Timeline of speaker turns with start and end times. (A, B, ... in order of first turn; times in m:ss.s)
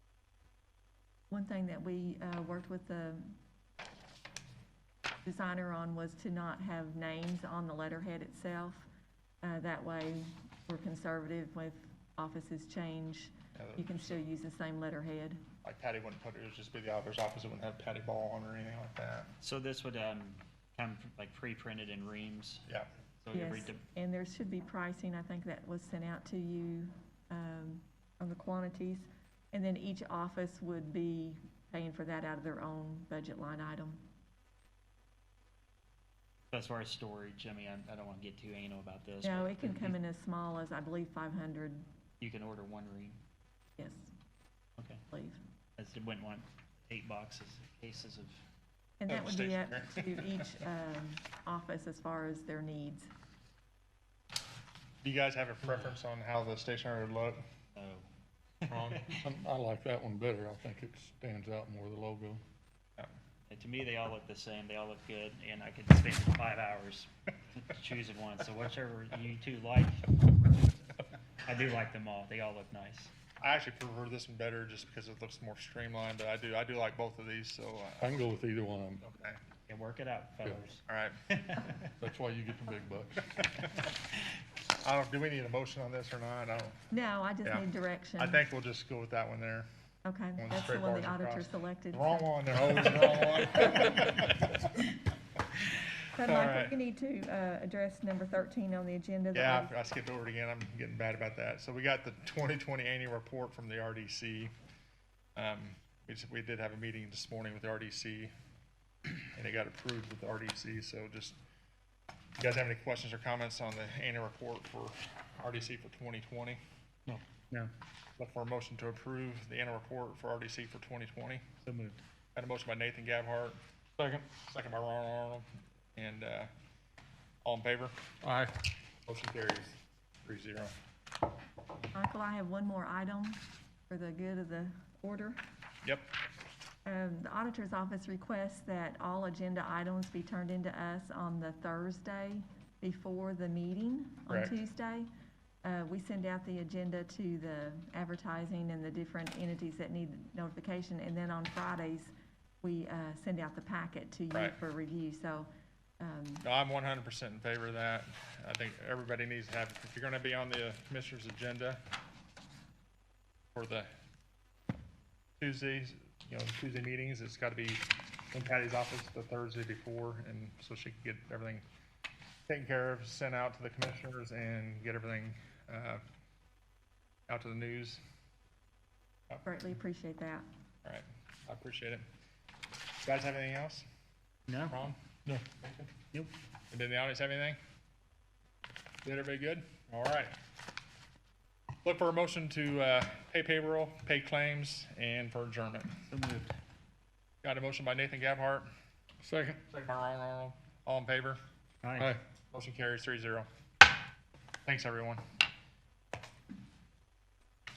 0:01.3-0:03.4 A
0:05.2-0:08.9 A
0:09.4-0:15.4 A
0:13.6-0:14.2 B
0:15.6-0:19.3 B
0:19.4-0:22.6 C
0:23.2-0:23.8 C
0:23.3-0:34.0 A
0:36.5-0:40.0 C
0:39.2-0:41.8 A
0:42.2-0:43.2 C
0:43.8-0:44.1 A
0:44.8-0:45.0 C
0:45.1-0:45.4 A
0:45.8-0:48.4 C
0:49.0-0:53.1 A
0:49.1-0:50.2 B
0:55.0-0:57.4 B
0:57.8-0:58.0 C
0:58.6-0:59.2 C
0:58.7-0:59.2 B
0:59.2-1:02.4 D
1:03.5-1:10.7 C
1:11.4-1:13.1 C
1:13.4-1:18.1 B
1:18.0-1:19.1 D
1:19.1-1:19.4 B
1:19.7-1:20.8 C
1:20.9-1:21.2 B
1:21.3-1:21.8 C
1:22.0-1:23.3 D
1:24.8-1:26.8 B
1:26.9-1:28.4 A
1:28.2-1:29.7 B
1:30.0-1:32.3 A
1:30.4-1:34.5 B
1:36.1-1:39.7 A
1:36.2-1:36.8 B
1:39.3-1:44.5 B
1:45.4-1:48.3 B
1:49.3-1:51.4 B
1:52.4-1:56.6 B
1:57.1-1:57.7 C
1:58.2-2:01.4 B
2:01.6-2:02.0 C
2:02.4-2:03.6 B
2:04.0-2:04.3 D
2:04.4-2:06.5 B
2:07.4-2:08.0 B
2:08.2-2:08.5 D
2:09.1-2:10.7 B
2:11.9-2:15.4 A
2:16.8-2:25.1 A
2:24.3-2:24.6 B
2:25.6-2:35.5 A
2:34.3-2:34.6 B
2:36.0-2:36.4 A
2:36.4-2:41.8 B
2:43.6-2:43.9 B
2:45.4-2:51.6 B
2:52.5-2:56.0 B
2:57.3-2:58.0 B
2:59.4-3:00.4 A
3:00.8-3:02.0 B
3:03.0-3:03.9 B
3:04.5-3:04.8 C
3:04.7-3:05.0 B
3:05.3-3:05.6 D
3:06.7-3:07.6 B
3:09.0-3:10.3 B
3:11.8-3:16.0 B
3:16.1-3:16.6 C
3:17.4-3:18.7 B
3:19.2-3:19.7 D
3:19.7-3:21.4 B
3:21.8-3:22.2 C
3:22.5-3:23.5 B
3:24.6-3:25.2 B